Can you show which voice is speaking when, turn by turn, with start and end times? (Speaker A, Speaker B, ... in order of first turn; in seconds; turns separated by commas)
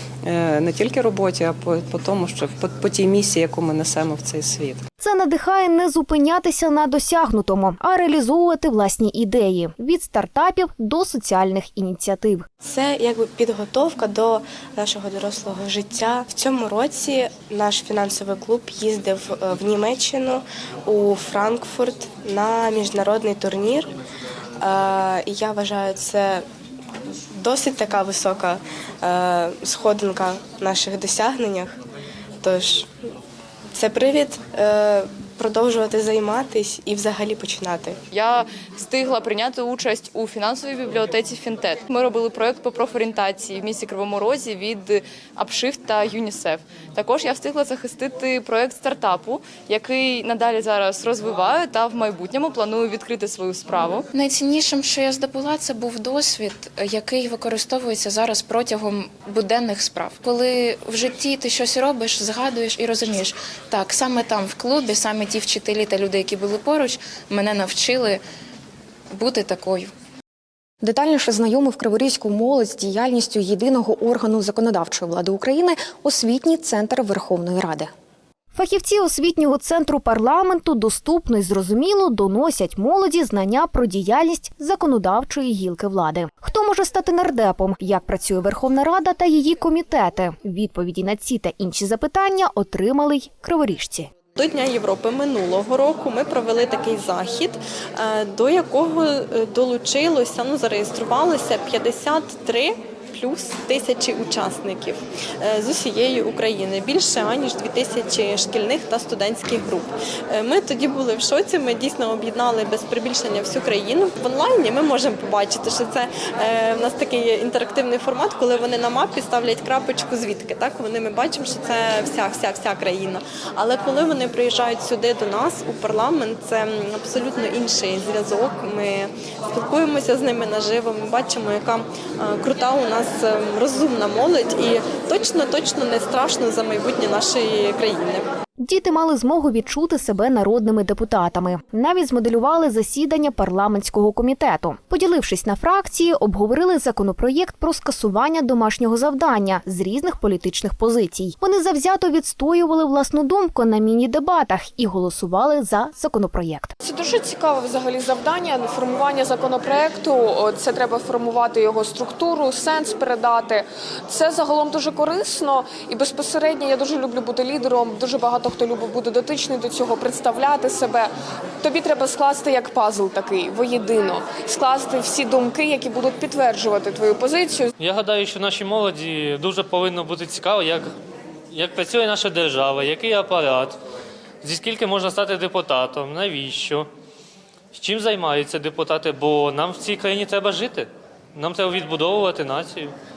Speaker A: 0.2-4.8, Speaker B: 5.0-12.4, Speaker C: 12.6-23.9, Speaker C: 24.6-26.4, Speaker C: 27.4-31.8, Speaker C: 32.4-33.1, Speaker C: 33.7-38.0, Speaker D: 38.1-54.0, Speaker E: 54.1-68.2, Speaker E: 69.1-69.9, Speaker B: 78.5-94.1, Speaker F: 94.3-138.3, Speaker B: 138.6-156.7, Speaker G: 156.8-171.1, Speaker G: 171.6-177.7, Speaker H: 177.8-180.9, Speaker H: 181.5-183.8, Speaker H: 184.4-186.9, Speaker H: 187.7-192.9